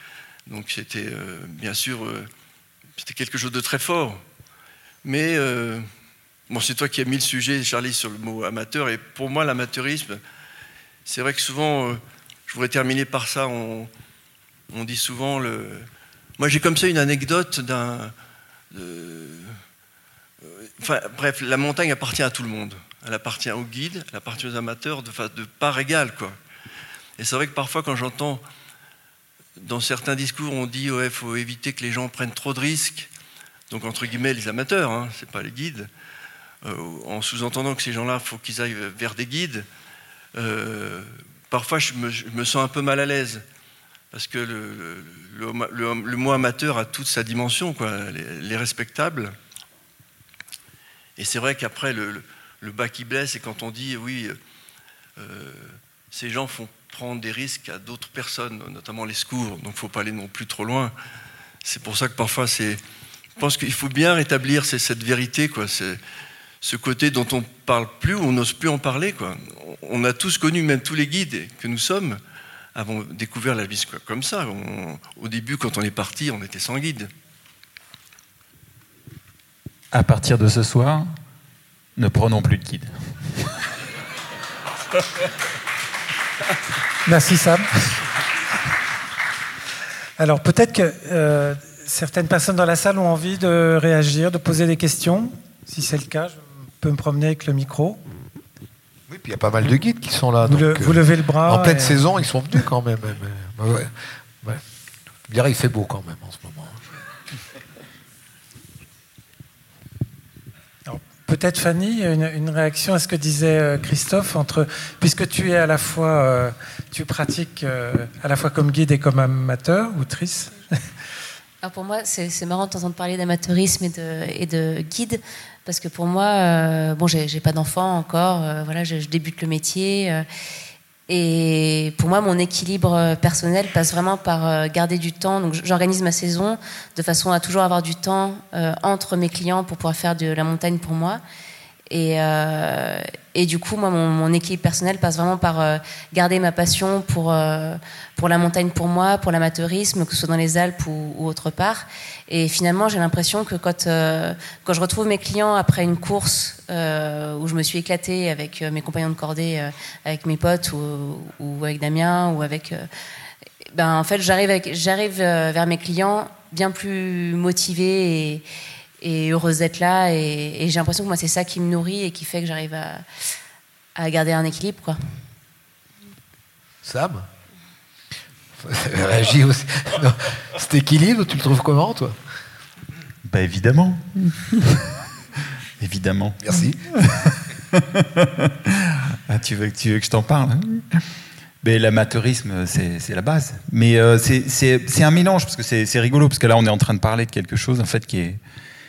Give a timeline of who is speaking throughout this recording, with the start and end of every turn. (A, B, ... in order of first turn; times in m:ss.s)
0:00.5-0:02.3 A
0:03.0-0:04.2 A
0:05.0-0:05.8 A
0:06.5-0:10.2 A
0:11.0-0:13.9 A
0:14.7-0:15.9 A
0:16.4-0:18.1 A
0:18.7-0:19.6 A
0:20.4-0:26.4 A
0:27.2-0:28.4 A
0:29.6-0:33.1 A
0:33.7-0:35.9 A
0:36.6-0:39.7 A
0:40.3-0:43.4 A
0:44.1-0:49.4 A
0:51.2-0:54.4 A
0:55.2-1:00.9 A
1:01.6-1:02.8 A
1:03.4-1:06.0 A
1:06.6-1:12.2 A
1:12.7-1:17.1 A
1:19.9-1:21.1 B
1:22.0-1:23.5 B
1:27.0-1:27.7 C
1:30.2-1:38.0 C
1:39.1-1:44.6 D
1:40.4-1:42.0 C
1:45.3-1:46.8 D
1:50.8-2:00.5 C
2:01.6-2:10.2 E
2:11.1-2:21.2 E
2:21.9-2:42.9 E
2:43.7-2:48.4 E
2:49.0-2:53.0 E
2:54.0-2:55.0 E
2:56.8-2:57.3 D
2:58.6-3:02.2 D
3:03.3-3:04.8 B
3:05.8-3:11.0 B
3:06.4-3:06.8 D
3:11.6-3:18.4 B